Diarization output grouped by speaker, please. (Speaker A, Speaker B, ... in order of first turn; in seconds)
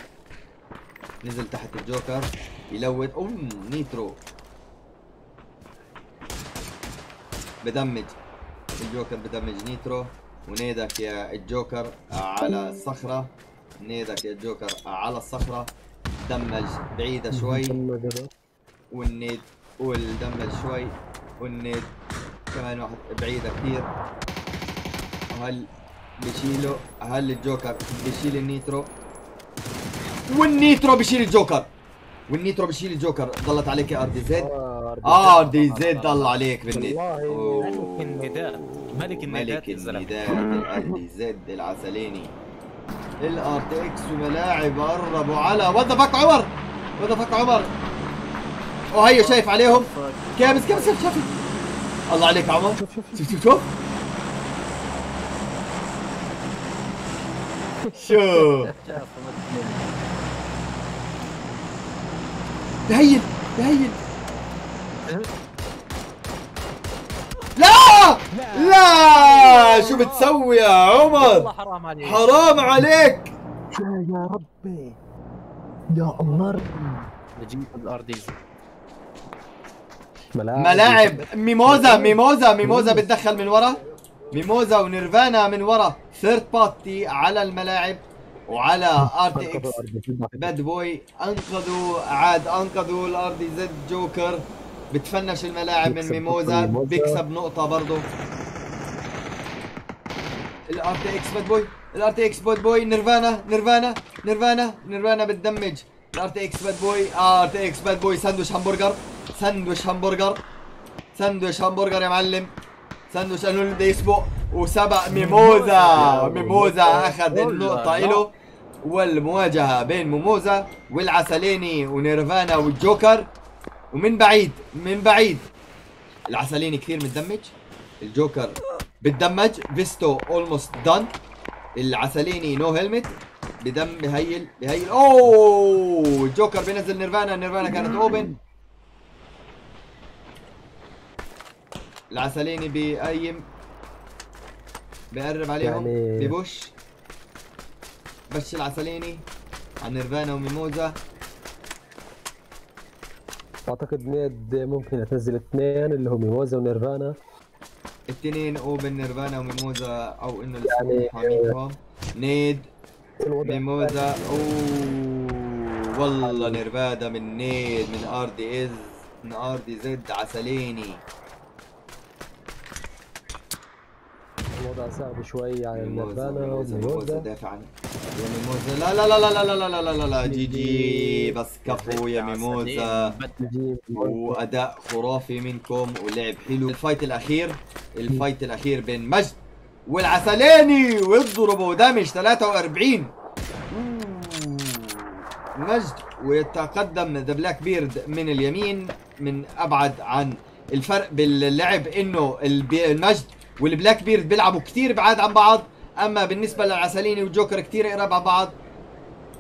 Speaker A: 1.2-4.2, 7.6-8.2, 8.8-17.8, 18.9-21.9, 22.5-23.9, 25.3-25.7, 26.2-28.9, 30.3-31.7, 32.3-34.5, 35.0-42.3, 43.2-47.7, 48.9-51.3, 52.1-53.7, 57.9-58.7, 62.9-64.0, 67.5-71.5, 72.0-73.3, 80.5-83.8, 84.3-89.8, 90.3-98.1, 100.7-110.4, 111.1-112.5, 113.1-118.3, 118.8-123.3, 123.9-125.5, 126.3-131.1, 131.8-138.3, 142.1-143.5, 145.1-146.7, 148.3-149.2, 149.8-151.0, 158.1-162.7, 163.4-171.0, 175.7-183.2, 183.9-193.1, 193.7-208.6
Speaker B: 17.3-18.3, 34.3-35.5, 36.7-37.7, 52.8-53.4, 58.1-59.0, 73.7-75.0, 75.9-77.1, 80.3-83.6, 89.0-90.5, 95.8-97.2, 116.0-116.7, 145.6-146.3, 153.7-157.2, 160.6-161.5, 163.2-164.5, 166.2-166.6, 174.6-177.3, 180.2-181.3, 183.4-184.4
Speaker C: 35.2-36.4, 37.6-40.5, 49.1-51.5, 58.7-59.9, 69.0-70.3, 71.2-72.3, 77.4-78.4, 115.5-118.2, 181.7-183.5